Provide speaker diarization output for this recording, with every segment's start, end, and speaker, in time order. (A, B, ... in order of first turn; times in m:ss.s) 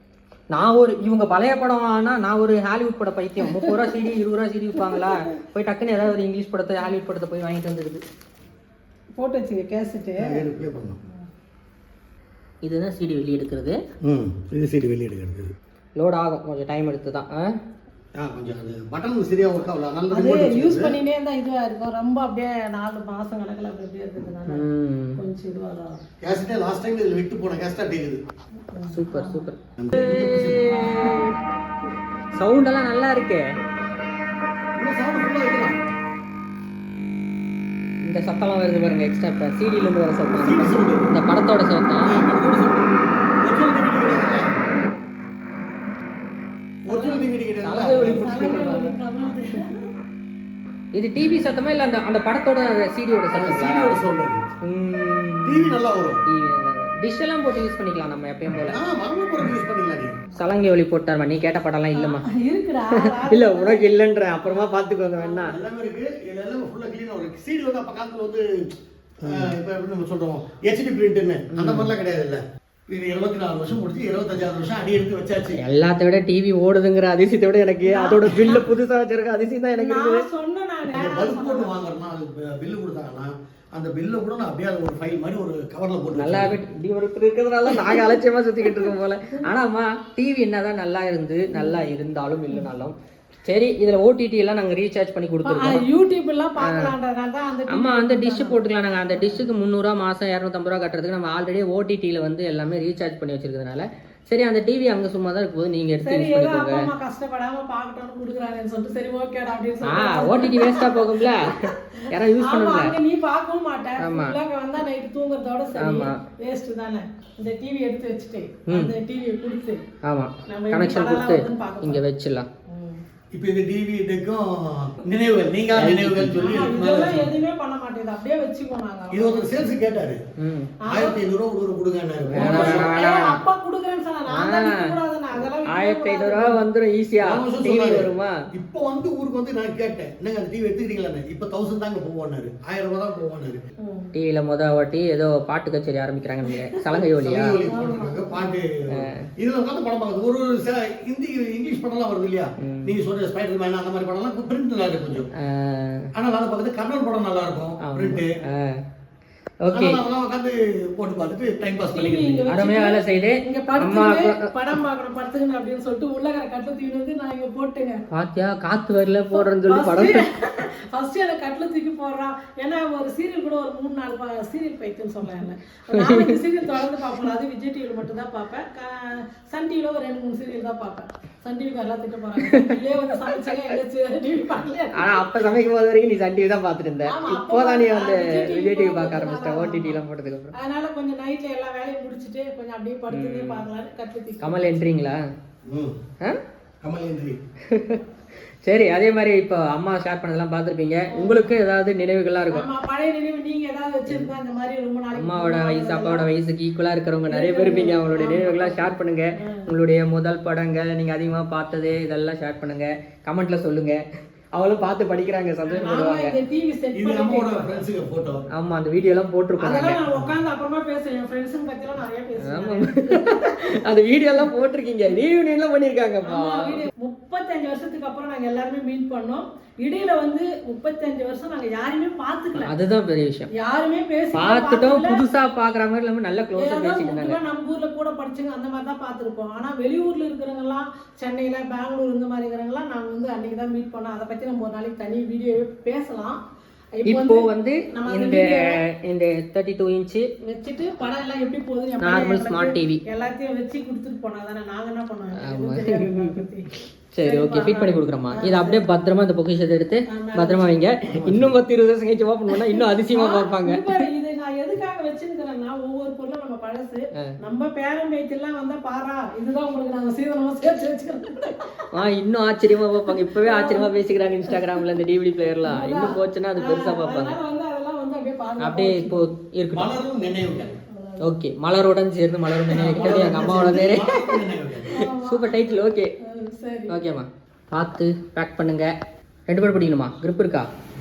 0:00.5-0:08.0 A
0:03.5-0:03.7 B
0:09.2-0:10.4 B
0:10.2-0:11.0 C
0:12.6-0:13.8 A
0:14.0-0:15.5 C
0:16.0-0:17.5 A
0:18.2-0:21.0 C
0:20.1-0:24.6 B
0:24.5-0:25.2 A
0:25.2-0:26.0 B
0:26.2-0:28.2 C
0:28.7-0:29.5 B
0:28.9-0:31.4 A
0:29.8-0:30.7 C
0:30.9-0:31.3 B
0:32.3-0:33.5 A
0:34.8-0:35.8 C
0:38.0-0:42.1 A
0:40.3-0:41.2 C
0:42.0-0:44.5 C
0:46.9-0:48.4 C
0:46.9-0:47.2 B
0:47.6-0:48.9 A
0:48.0-0:49.8 B
0:50.9-0:54.0 A
0:53.3-0:54.4 C
0:54.6-0:55.8 A
0:55.4-0:56.2 C
0:56.3-0:58.8 A
0:58.7-1:00.2 C
1:00.4-1:02.2 A
1:01.9-1:03.9 B
1:03.2-1:05.6 A
1:04.4-1:05.6 B
1:05.5-1:08.4 C
1:09.2-1:15.6 C
1:11.5-1:11.9 A
1:15.6-1:20.2 A
1:17.8-1:18.6 B
1:19.8-1:21.7 B
1:20.9-1:26.5 C
1:26.1-1:32.9 A
1:31.5-1:31.9 B
1:33.5-1:35.8 A
1:35.4-1:39.4 B
1:36.6-1:36.9 A
1:37.7-1:46.9 A
1:46.0-1:51.3 B
1:49.8-1:52.9 A
1:52.0-1:59.8 B
1:54.0-1:54.4 A
1:55.8-1:56.2 A
2:00.0-2:02.5 A
2:00.5-2:02.0 B
2:02.7-2:03.0 B
2:03.3-2:07.3 C
2:05.7-2:06.5 A
2:06.4-2:09.6 B
2:09.1-2:10.2 C
2:10.4-2:10.7 A
2:10.8-2:11.2 B
2:10.9-2:12.9 C
2:12.3-2:13.4 A
2:12.4-2:16.6 B
2:14.3-2:14.8 A
2:15.7-2:18.3 A
2:17.2-2:23.6 C
2:23.8-2:24.1 B
2:24.1-2:27.6 A
2:27.2-2:35.3 C
2:27.7-2:28.5 B
2:28.9-2:29.3 A
2:32.6-2:32.9 A
2:35.4-2:36.1 A
2:36.1-2:38.3 C
2:37.8-2:38.8 A
2:39.6-2:40.0 A
2:39.7-2:42.5 C
2:41.9-2:48.0 B
2:42.5-2:44.4 A
2:48.1-2:50.2 A
2:49.3-3:05.3 B
2:55.9-2:56.4 A
3:02.4-3:02.8 A
3:05.0-3:10.5 A
3:07.1-3:10.0 B
3:10.6-3:14.8 B
3:13.1-3:13.6 A
3:14.4-3:15.2 A
3:15.7-3:15.9 C
3:16.8-3:17.4 C
3:17.7-3:18.0 A
3:18.6-3:22.6 A
3:21.1-3:21.5 B
3:22.5-3:26.3 B
3:25.1-3:34.0 A
3:27.3-3:29.6 B
3:34.5-3:36.3 A
3:35.6-3:37.8 B
3:36.9-3:38.4 C
3:38.5-3:40.0 A
3:39.6-3:43.6 B
3:42.4-3:46.9 A
3:46.2-3:52.7 B
3:52.6-3:53.5 A
3:53.6-3:55.2 B
3:54.3-3:57.4 A
3:56.6-4:06.4 B
4:07.0-4:08.8 B
4:07.0-4:10.3 A
4:10.4-4:16.7 B
4:12.0-4:13.0 A
4:15.4-4:16.4 A
4:17.1-4:23.9 A
4:17.2-4:18.8 B
4:20.1-4:20.8 B
4:21.1-4:21.5 C
4:22.5-4:31.6 B
4:31.9-4:37.4 A
4:33.4-4:33.9 B
4:34.5-4:34.8 B
4:35.6-4:39.2 B
4:38.6-4:39.9 A
4:39.7-4:40.8 C
4:40.9-4:41.2 B
4:41.2-4:44.3 A
4:42.7-4:44.9 C
4:43.2-4:43.5 B
4:44.9-4:45.6 B
4:45.0-4:46.1 A
4:46.2-4:47.0 B
4:46.9-4:48.9 A
4:49.5-4:50.7 A